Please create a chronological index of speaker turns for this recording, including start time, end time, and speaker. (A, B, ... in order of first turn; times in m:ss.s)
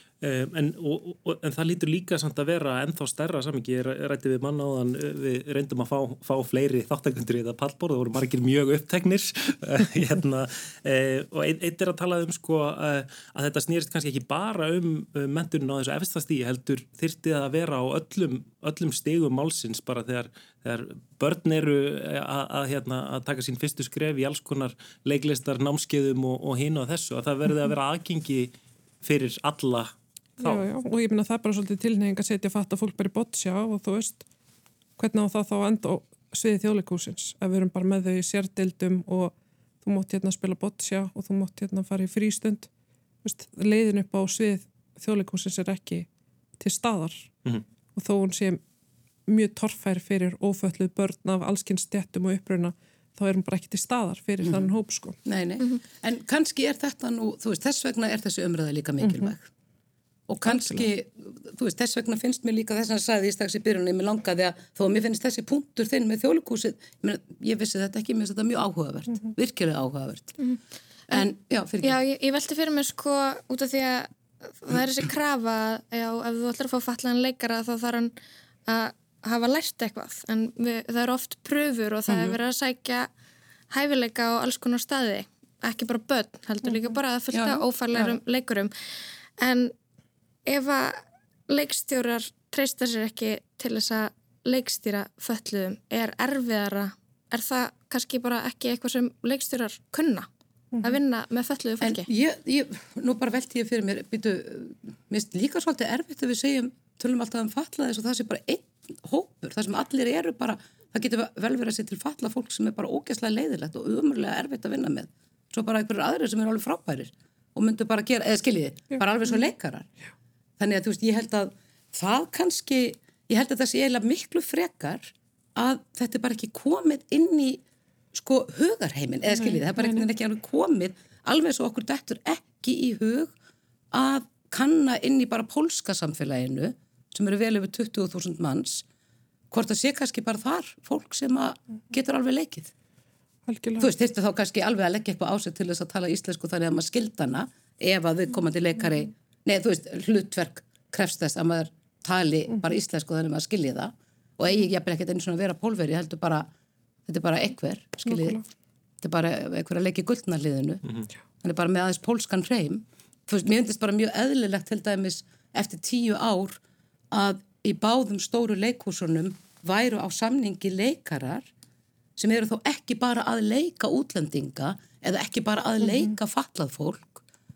0:00.2-0:30.6 A
0:30.4-0:34.2 B
0:35.0-0:42.7 B
0:43.2-0:46.1 B
0:46.6-0:47.3 B
0:48.0-0:48.6 B
0:49.3-0:55.2 B
0:54.4-0:54.7 C
0:55.2-0:59.5 C
0:59.0-0:59.3 B
1:00.3-1:10.4 C
1:00.5-1:00.9 B
1:11.1-1:12.0 C
1:11.8-1:18.1 D
1:18.7-1:23.1 D
1:22.1-1:22.4 C
1:23.7-1:28.7 D
1:27.3-1:28.2 C
1:29.4-1:29.7 D
1:30.5-1:40.3 D
1:40.8-1:42.1 D
1:41.8-1:59.9 C
2:00.6-2:13.3 C
2:09.3-2:10.0 B
2:13.9-2:18.8 C
2:19.5-2:22.7 C
2:23.5-2:23.9 B
2:23.8-2:36.5 C
2:37.1-2:38.4 C
2:38.1-2:38.4 B
2:39.0-2:40.8 C
2:41.4-2:46.6 C
2:47.1-2:51.5 C
2:52.2-2:57.2 C